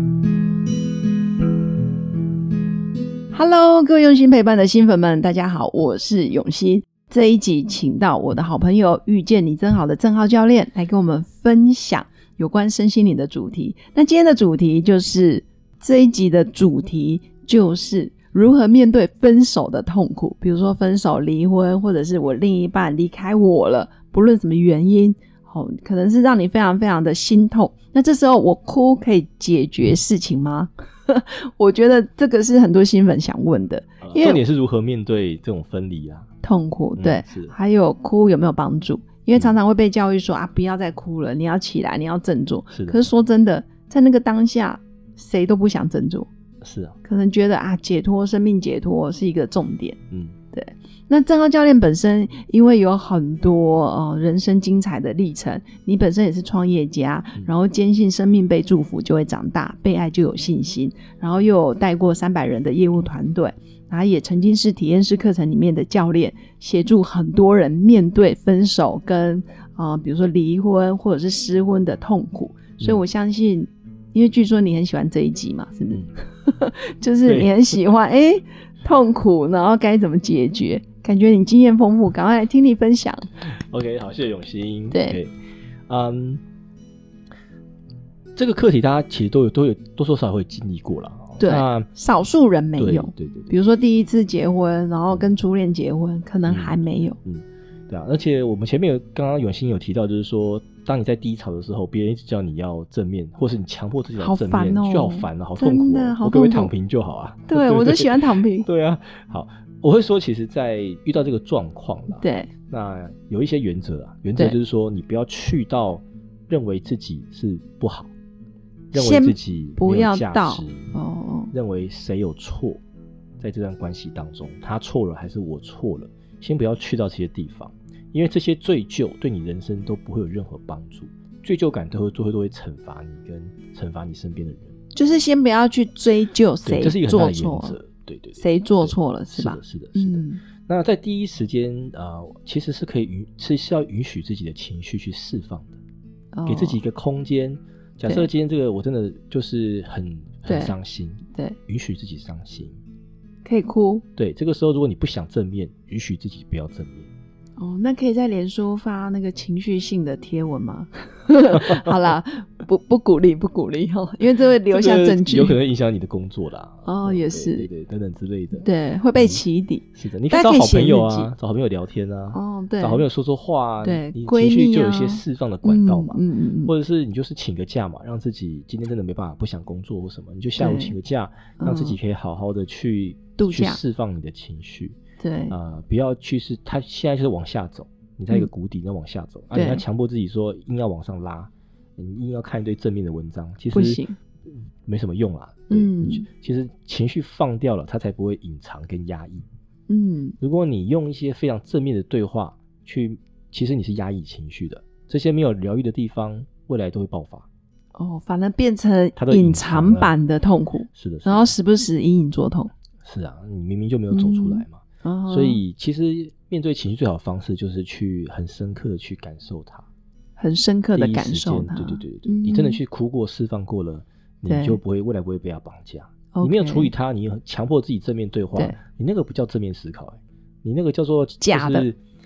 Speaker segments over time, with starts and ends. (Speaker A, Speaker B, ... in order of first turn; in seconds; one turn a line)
Speaker A: 3.3-34.4
Speaker B: 34.0-36.3
Speaker A: 36.4-46.3
Speaker B: 37.0-37.5
Speaker B: 42.7-43.0
Speaker B: 46.6-47.0
Speaker A: 47.0-50.0
Speaker B: 50.1-50.4
Speaker A: 50.5-83.3
Speaker B: 77.2-77.5
Speaker B: 83.4-85.3
Speaker A: 84.9-85.2
Speaker B: 85.9-86.4
Speaker B: 88.3-91.9
Speaker A: 91.4-97.2
Speaker B: 92.8-93.5
Speaker B: 96.5-118.1
Speaker A: 104.2-106.7
Speaker A: 107.5-108.7
Speaker A: 112.2-112.5
Speaker B: 118.9-120.9
Speaker A: 118.9-121.5
Speaker B: 121.5-122.8
Speaker B: 123.4-134.8
Speaker A: 134.9-137.8
Speaker B: 136.6-145.8
Speaker A: 138.3-140.4
Speaker A: 146.3-146.8
Speaker B: 146.5-152.8
Speaker A: 150.5-150.7
Speaker A: 153.4-154.0
Speaker B: 154.2-157.1
Speaker A: 157.6-165.6
Speaker B: 164.7-169.4
Speaker A: 166.8-167.7
Speaker A: 168.5-171.3
Speaker B: 169.9-185.0
Speaker A: 172.3-173.1
Speaker A: 173.8-176.7
Speaker A: 180.6-180.9
Speaker A: 181.6-182.0
Speaker A: 183.3-183.8
Speaker A: 185.2-185.6
Speaker B: 185.5-199.4
Speaker A: 189.5-189.8
Speaker A: 193.7-194.2
Speaker A: 195.7-196.3
Speaker A: 199.9-200.3
Speaker B: 200.4-207.5
Speaker A: 207.9-212.7
Speaker B: 209.2-210.1
Speaker B: 210.9-211.5
Speaker B: 213.0-219.9
Speaker A: 214.1-215.6
Speaker A: 220.4-222.8
Speaker B: 220.9-232.0
Speaker A: 224.5-224.8
Speaker A: 226.3-226.9
Speaker A: 231.4-231.9